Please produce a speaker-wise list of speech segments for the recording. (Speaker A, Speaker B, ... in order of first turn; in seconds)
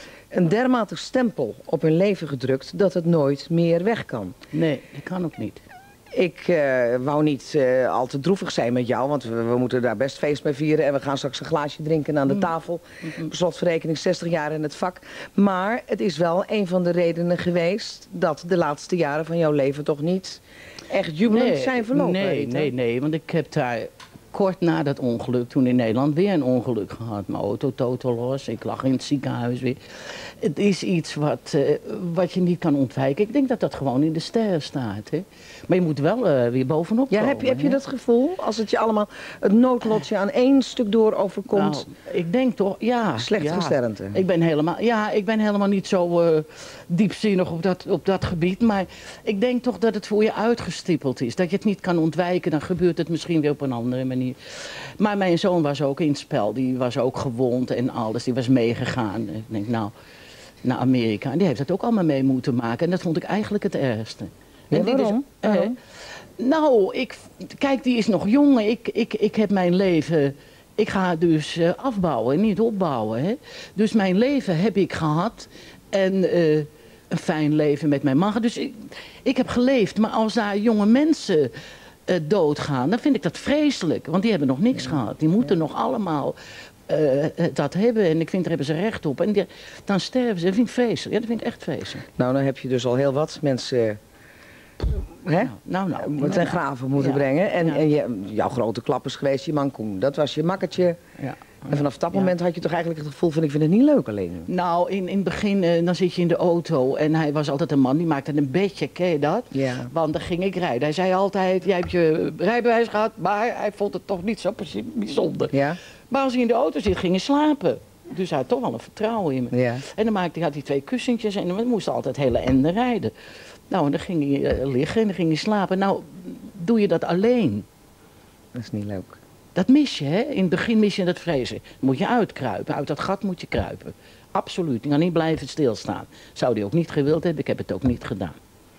Speaker A: 0.3-4.3, 6.1-22.7, 37.1-41.9, 43.2-44.2, 64.7-65.8, 92.2-94.0, 95.2-101.0, 101.7-104.5, 109.5-109.9, 115.5-115.8, 119.5-119.8, 128.5-129.2
Speaker B: 4.5-5.6, 21.3-37.8, 41.5-59.9, 60.6-65.8, 66.4-81.5, 82.1-86.3, 86.9-92.0, 95.4-97.8, 101.2-102.3, 104.5-123.1, 123.7-127.6, 129.6-138.3